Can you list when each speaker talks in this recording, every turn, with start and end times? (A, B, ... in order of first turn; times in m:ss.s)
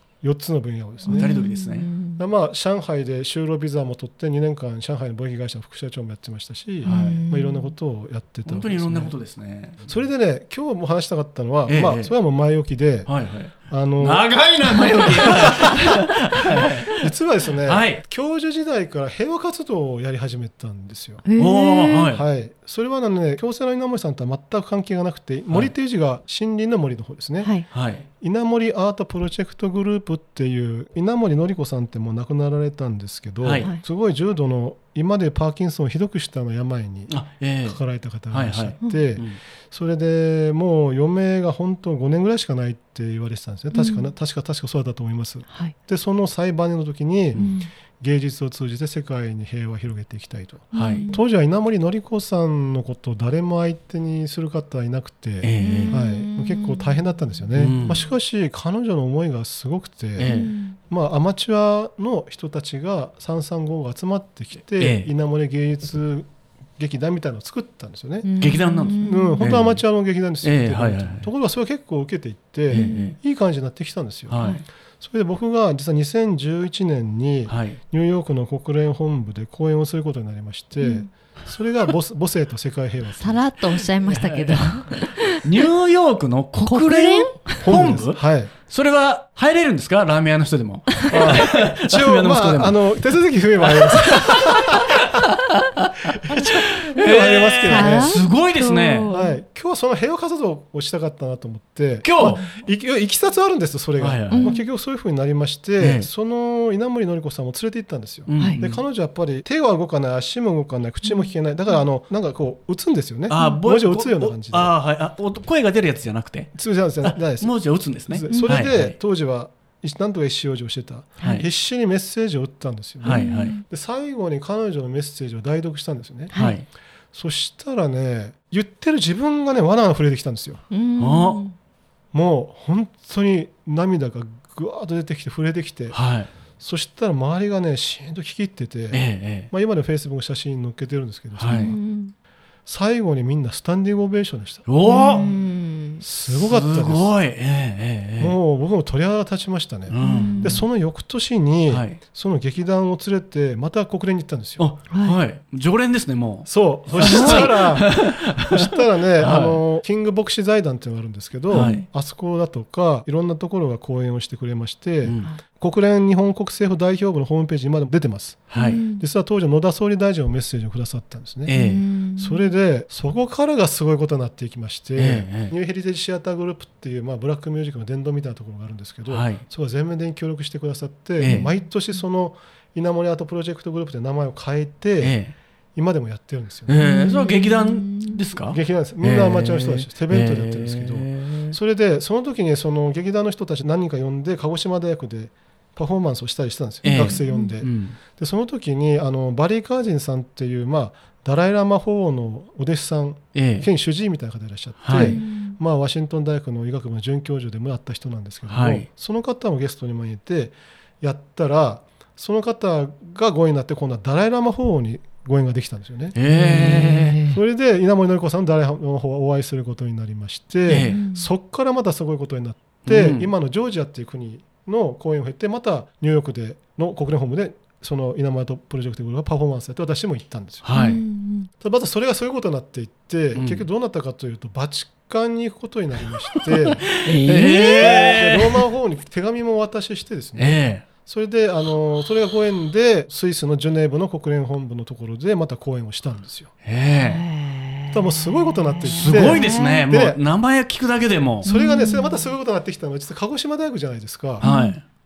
0:00.2-0:01.4 A
0:01.1-0:02.2 B
0:01.1-0:01.9 C
0:02.2-0:09.1 A
0:06.8-0:07.7 B
0:06.8-0:07.2 C
0:08.4-0:09.8 C
0:09.8-0:14.4 A
0:11.7-0:12.1 C
0:13.1-0:17.0 C
0:15.0-0:15.9 A
0:17.0-0:21.2 A
0:17.6-0:18.0 C
0:21.2-0:22.1 B
0:21.4-0:22.2 C
0:22.1-1:23.4 A
0:27.7-0:28.0 C
0:33.4-0:33.7 C
0:37.1-0:37.8 C
0:38.3-0:39.4 C
0:43.7-0:44.1 B
0:47.3-0:47.7 B
0:50.7-0:51.2 B
0:50.7-0:51.1 C
0:55.4-0:56.0 C
0:55.6-0:57.0 B
0:57.6-0:58.0 C
1:00.2-1:00.5 C
1:00.3-1:00.8 B
1:04.8-1:05.1 C
1:08.2-1:09.4 B
1:08.4-1:09.8 C
1:10.4-1:11.3 C
1:12.7-1:13.1 B
1:12.7-1:13.2 C
1:14.3-1:14.6 C
1:17.5-1:17.8 C
1:20.8-1:21.1 B
1:23.2-1:25.4 B
1:24.0-1:33.0 C
1:26.6-1:27.6 B
1:27.6-1:28.5 A
1:31.1-1:35.1 A
1:31.1-1:31.4 B
1:33.6-1:39.1 C
1:36.2-1:38.2 A
1:37.7-1:39.4 B
1:39.1-1:54.7 A
1:42.0-1:42.5 C
1:42.2-1:42.5 B
1:44.0-1:44.5 C
1:44.3-1:44.6 B
1:45.8-1:46.1 C
1:48.3-1:48.8 C
1:51.0-1:51.3 B
1:53.3-1:59.0 C
1:56.6-2:06.4 A
1:58.3-1:58.6 B
2:01.2-2:01.4 B
2:01.2-2:01.4 C
2:03.0-2:03.6 C
2:03.1-2:03.6 B
2:06.3-2:06.6 B
2:06.3-2:06.6 C
2:07.1-2:10.6 A
2:10.7-2:11.5 B
2:11.0-2:11.4 C
2:12.1-2:16.0 A
2:15.9-2:16.3 C
2:16.6-2:21.8 A
2:18.9-2:19.5 C
2:21.4-2:21.7 C
2:21.5-2:22.1 B
2:22.6-2:25.3 A
2:24.7-2:25.2 C
2:24.8-2:26.0 B
2:26.0-2:27.1 A
2:26.2-2:28.3 C
2:28.2-2:34.7 A
2:29.9-2:30.6 C
2:30.0-2:30.6 B
2:31.7-2:32.0 C
2:34.6-2:39.6 C
2:34.9-2:35.2 B
2:36.5-2:51.6 A
2:37.0-2:37.7 B
2:41.5-2:41.8 C
2:41.5-2:41.8 B
2:45.0-2:45.3 C
2:48.5-2:48.8 C
2:48.6-2:49.0 B
2:51.4-2:51.8 C
2:51.5-2:52.5 B
2:52.2-3:05.2 A
2:55.0-2:55.5 C
2:59.1-2:59.4 C
3:01.2-3:01.5 C
3:01.2-3:01.5 B
3:05.0-3:05.3 C
3:05.7-3:06.7 A
3:06.7-3:11.6 C
3:06.8-3:08.2 B
3:08.5-3:50.7 A
3:16.8-3:18.0 C
3:16.9-3:17.5 B
3:23.3-3:23.7 C
3:24.8-3:25.2 C
3:24.9-3:25.6 B
3:28.5-3:28.9 C
3:36.2-3:37.2 C
3:36.3-3:37.4 B
3:40.7-3:41.0 C
3:40.7-3:41.3 B
3:42.8-3:43.3 C
3:50.6-3:51.0 C
3:50.7-3:51.5 B
3:51.6-4:06.5 A
3:53.3-3:53.6 C
3:56.9-3:58.5 C
3:57.0-3:58.1 B
4:00.4-4:00.8 C
4:06.6-4:07.2 C
4:07.0-4:09.8 B
4:07.9-4:10.2 A
4:09.0-4:11.5 C
4:11.4-4:12.3 B
4:11.5-4:14.4 A
4:14.4-4:14.8 C
4:14.4-4:14.8 B